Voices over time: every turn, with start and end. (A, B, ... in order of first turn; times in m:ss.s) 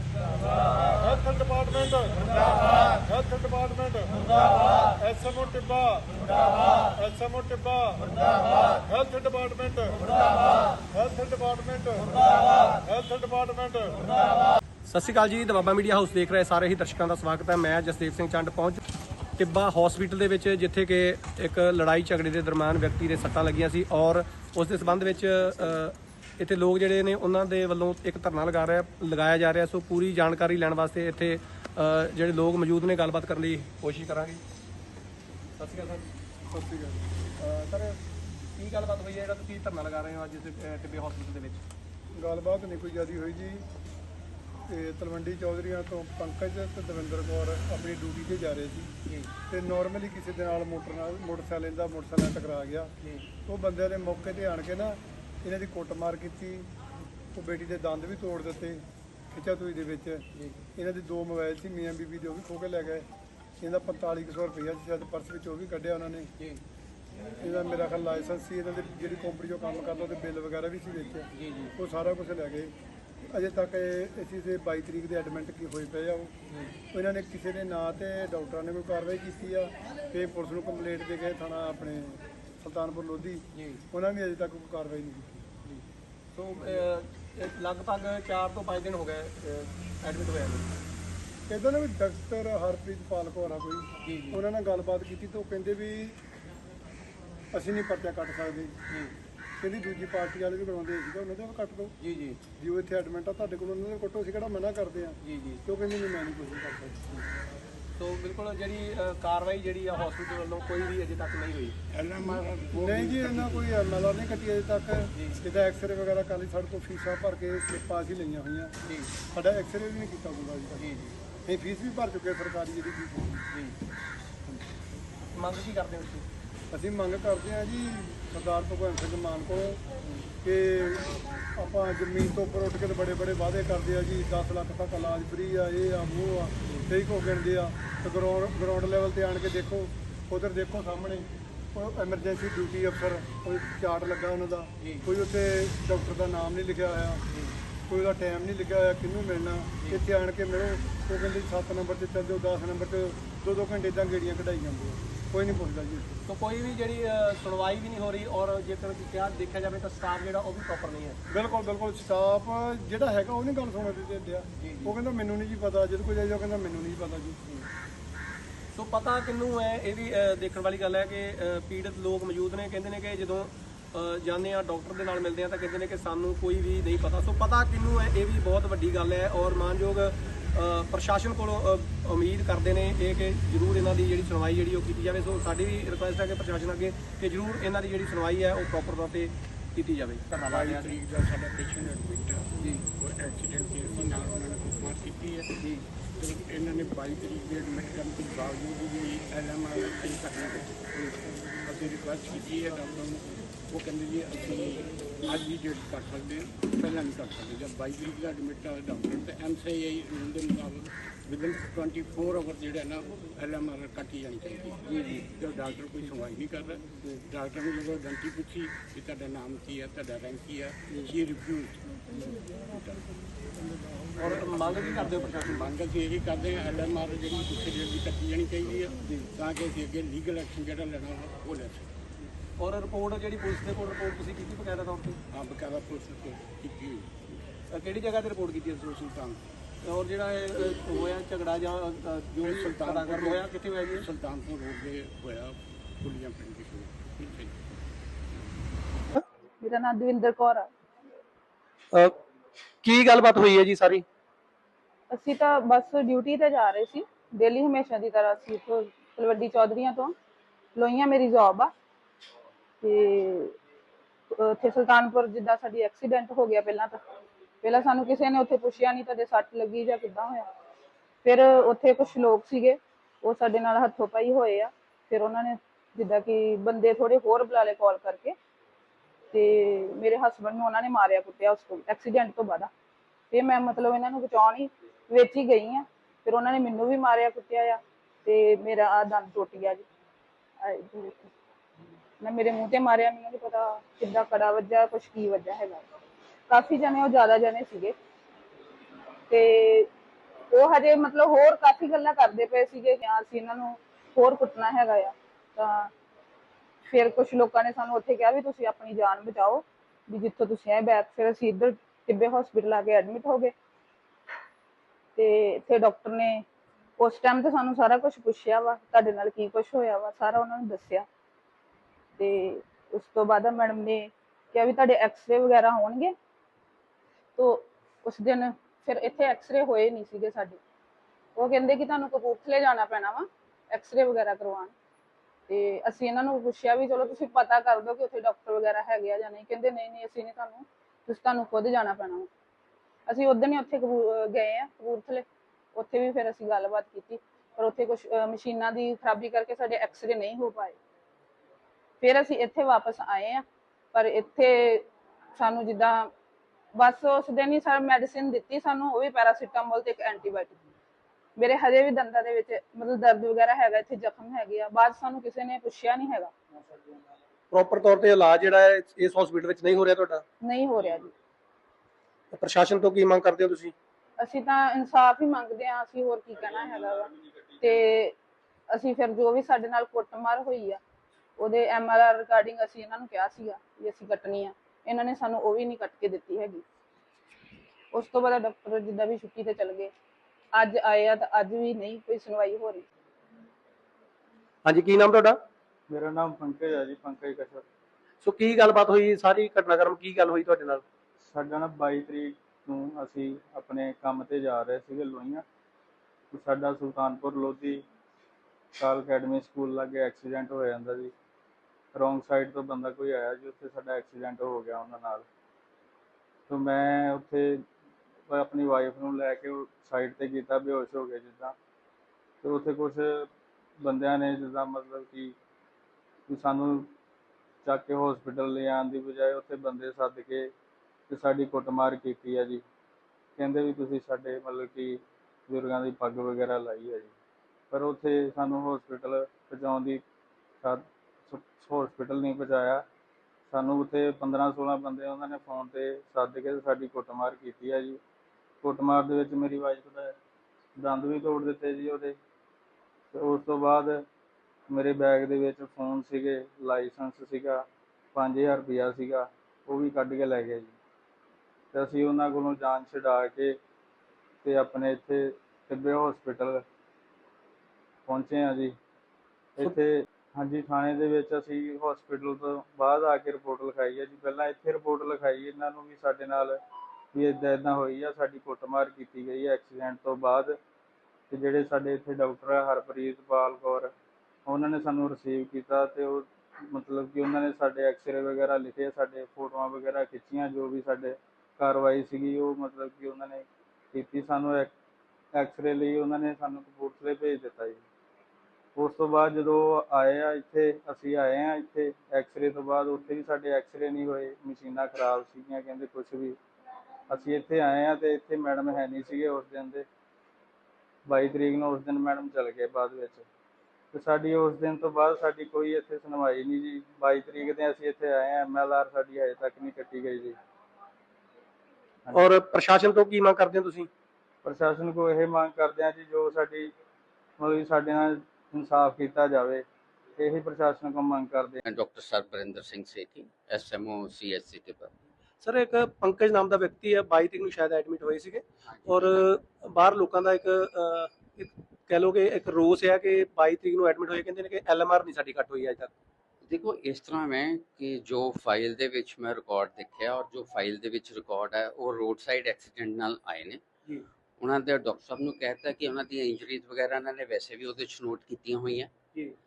0:00.9-0:04.3 A
0:05.0-0:14.3 A
0:14.8-0:18.8 B
0:19.4-0:34.4 B
0:35.6-0:36.0 B
0:36.5-0:37.0 A
0:37.4-0:38.0 B
0:38.5-0:41.6 B
0:42.1-0:43.6 A
0:44.7-0:48.9 A
0:49.5-0:52.9 A
0:53.4-0:56.7 A
0:57.3-1:03.1 A
1:00.3-1:00.6 B
1:03.6-1:06.3 A
1:07.4-1:12.7 A
1:11.3-1:11.7 B
1:13.3-1:16.3 A
1:16.5-1:16.7 B
1:16.9-1:25.5 A
1:23.5-1:23.8 B
1:26.3-1:30.7 B
1:31.5-1:36.2 A
1:34.0-1:34.4 B
1:37.5-1:38.7 A
1:39.6-1:41.9 A
1:42.0-1:42.4 B
1:42.6-1:47.0 A
1:45.2-1:45.6 B
1:48.0-1:51.8 B
1:51.9-1:53.7 C
1:52.8-1:58.7 A
1:58.8-1:59.1 B
1:59.3-2:00.8 A
2:00.8-2:01.1 B
2:01.4-2:03.4 A
2:05.3-2:06.2 B
2:06.7-2:09.8 A
2:10.4-2:27.2 A
2:24.8-2:25.0 B
2:27.3-2:27.5 B
2:27.9-2:36.1 A
2:36.3-2:41.2 B
2:41.3-2:47.4 A
2:44.6-2:45.0 B
2:48.7-3:11.0 B
3:10.3-3:15.5 C
3:16.2-3:20.9 C
3:21.6-3:43.2 C
3:34.8-3:35.2 B
3:44.2-3:45.7 B
3:44.2-3:51.9 C
3:52.6-3:55.2 B
3:55.3-3:57.4 C
3:57.7-3:59.1 B
3:58.7-3:59.4 C
3:59.8-4:04.0 B
4:02.4-4:07.5 C
4:09.6-4:10.7 D
4:12.8-4:14.0 B
4:15.1-4:20.1 D
4:20.7-4:21.7 D
4:22.8-4:23.5 D
4:24.3-4:27.0 D
4:27.6-4:30.5 D
4:31.2-4:38.3 D
4:39.3-4:42.7 D
4:43.3-4:49.8 D
4:50.6-4:51.3 D
4:52.2-4:55.8 D
4:56.5-4:57.9 D
4:59.3-4:59.9 D
5:00.5-5:05.9 D
5:06.8-5:13.5 D
5:15.2-5:16.4 D
5:17.0-5:21.0 D
5:22.2-5:26.1 D
5:27.4-5:30.6 D
5:31.4-5:34.7 D
5:35.5-5:42.3 D
5:43.1-5:50.8 D
5:52.0-5:56.1 D
5:56.7-6:00.6 D
6:01.4-6:06.3 D
6:07.5-6:10.2 B
6:10.4-6:11.1 D
6:12.3-6:13.7 B
6:14.2-6:18.2 D
6:18.7-6:20.8 D
6:21.4-6:26.6 D
6:27.9-6:29.9 D
6:30.5-6:32.8 D
6:34.6-6:35.4 B
6:35.9-6:37.6 E
6:38.2-6:40.8 B
6:41.3-6:45.4 E
6:46.3-6:47.8 E
6:48.8-6:51.1 E
6:51.9-6:55.2 E
6:56.5-6:57.6 E
6:58.3-7:01.5 E
7:02.4-7:03.3 E
7:03.8-7:05.3 E
7:06.3-7:06.9 E
7:07.6-7:10.5 E
7:11.1-7:12.6 E
7:13.4-7:17.1 E
7:17.7-7:20.0 E
7:20.6-7:22.8 E
7:23.5-7:28.0 E
7:28.6-7:30.2 E
7:30.8-7:32.2 E
7:33.1-7:34.0 E
7:34.7-7:37.6 E
7:38.1-7:40.7 E
7:41.7-7:43.6 E
7:44.4-7:46.6 E
7:48.1-7:48.7 E
7:49.6-7:56.6 E
7:57.1-8:00.5 E
8:01.3-8:03.9 E
8:04.4-8:14.7 E
8:15.3-8:17.8 E
8:18.8-8:26.4 E
8:27.1-8:29.8 E
8:31.1-8:33.2 E
8:33.9-8:40.3 E
8:42.1-8:43.9 B
8:44.4-8:46.7 E
8:47.4-8:49.6 E
8:50.2-8:51.6 E
8:51.6-8:54.9 F
8:55.4-9:05.9 B
9:06.4-9:13.6 F
9:14.4-9:18.9 F